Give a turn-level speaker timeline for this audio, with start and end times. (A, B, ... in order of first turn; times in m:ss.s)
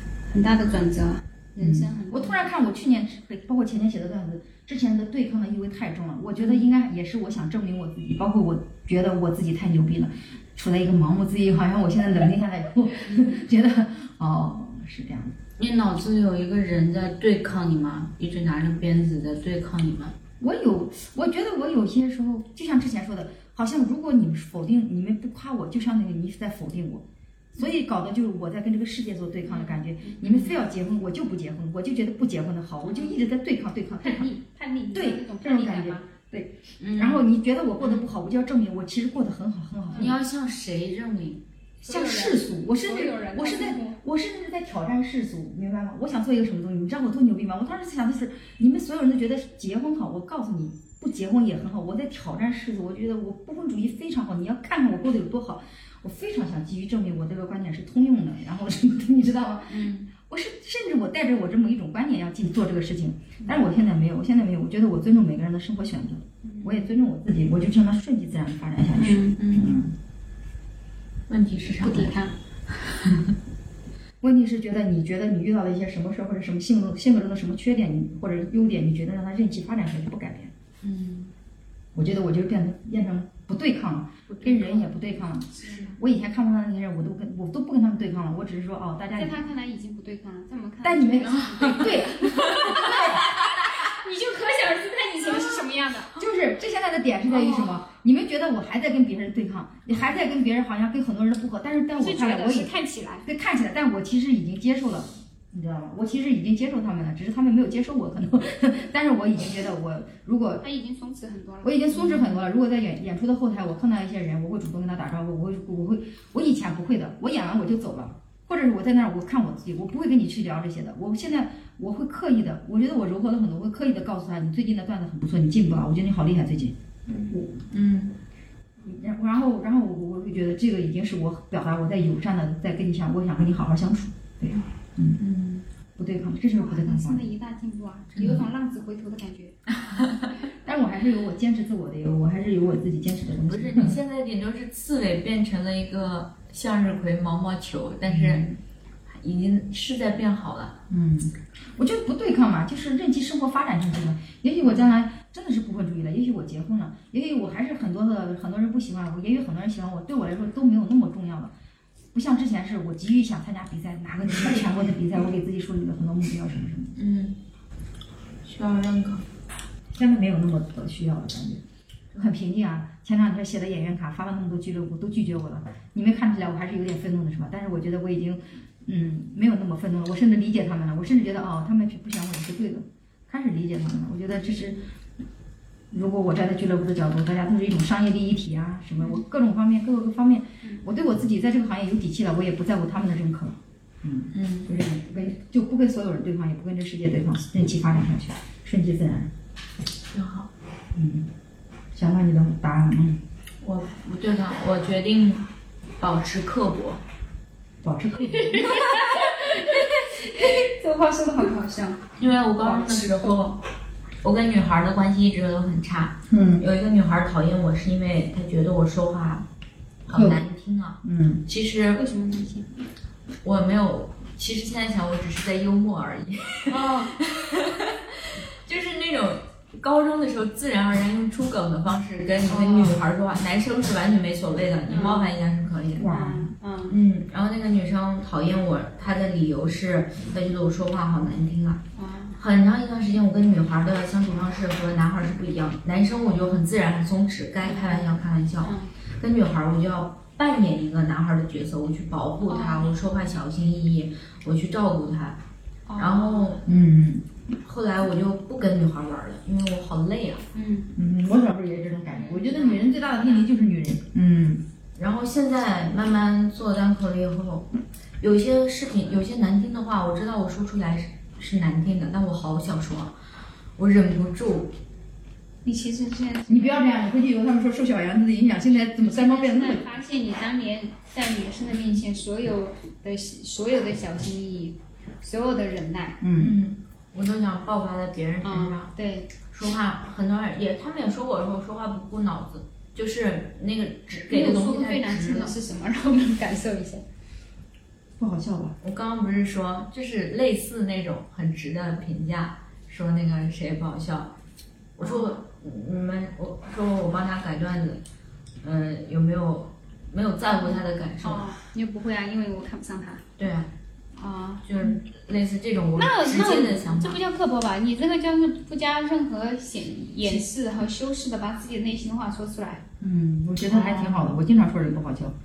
0:00.3-0:02.5 A
0:01.6-0:15.4 B
0:15.6-0:20.2 C
0:20.4-0:34.3 B
0:29.5-0:29.8 A
0:30.2-0:30.5 C
0:32.8-0:33.2 A
0:34.0-0:36.1 A
0:34.9-0:40.1 B
0:36.8-0:37.2 C
0:39.9-0:41.4 C
0:41.8-0:44.0 A
0:41.8-1:09.9 B
0:59.7-1:00.1 C
1:06.4-1:06.9 A
1:08.9-1:09.4 A
1:09.4-1:09.7 C
1:11.3-1:12.1 C
1:11.8-1:13.0 A
1:14.2-1:20.5 B
1:20.8-1:21.3 C
1:21.9-1:29.4 B
1:24.4-1:26.0 A
1:29.2-1:36.2 A
1:30.8-1:33.5 B
1:36.1-1:42.7 B
1:37.3-1:37.7 A
1:42.0-1:43.3 A
1:43.2-1:50.6 B
1:50.6-1:52.4 A
1:51.6-2:06.8 B
2:07.1-2:08.1 C
2:07.3-2:07.6 B
2:08.8-2:15.2 B
2:15.2-2:15.6 C
2:16.0-2:17.3 B
2:16.6-2:19.6 A
2:18.2-2:18.4 C
2:18.2-2:18.5 B
2:19.8-2:20.2 C
2:20.6-2:24.0 B
2:23.5-2:28.5 C
2:28.0-2:28.6 B
2:29.1-2:30.8 C
2:30.9-2:41.5 B
2:42.1-2:47.0 B
2:44.3-2:44.7 C
2:47.0-2:47.4 C
2:48.4-2:49.2 C
2:49.9-2:51.6 B
2:52.1-3:04.8 B
3:05.9-3:19.3 B
3:14.3-3:14.7 C
3:20.1-3:20.5 C
3:20.9-3:21.3 B
3:21.9-3:23.2 B
3:23.6-3:25.5 C
3:26.0-3:27.0 C
3:27.8-3:29.0 B
3:28.3-3:33.4 A
3:32.2-3:33.6 C
3:34.2-3:39.5 C
3:36.3-3:36.6 B
3:40.0-3:42.0 C
3:40.1-3:40.4 B
3:41.0-3:41.4 B
3:41.9-3:42.7 A
3:43.4-3:56.2 C
3:46.7-3:47.1 A
3:52.5-3:53.0 B
3:54.9-3:55.3 A
3:56.0-3:56.5 B
3:56.0-3:57.0 A
3:56.9-4:15.4 C
4:02.0-4:02.4 A
4:07.6-4:08.9 A
4:12.5-4:12.9 A
4:15.9-4:16.6 A
4:16.0-4:16.6 C
4:16.6-4:17.2 B
4:17.6-4:20.5 C
4:20.5-4:20.9 A
4:20.9-4:24.6 B
4:22.1-4:23.6 A
4:25.0-4:33.2 C
4:33.8-4:34.7 C
4:35.6-4:37.0 A
4:36.5-4:39.8 B
4:38.8-4:46.2 A
4:46.2-4:46.6 B
4:46.4-4:48.9 C
4:48.4-4:49.3 A
4:49.5-4:55.6 C
4:54.3-4:57.0 A
4:58.2-4:58.8 B
4:58.8-5:04.3 C
5:05.0-5:08.0 C
5:05.0-5:05.3 A
5:08.6-5:11.5 C
5:11.2-5:13.3 A
5:13.4-5:13.7 C
5:14.2-5:14.6 A
5:14.6-5:17.2 C
5:16.0-5:22.8 A
5:23.0-5:25.3 B
5:23.6-5:24.3 C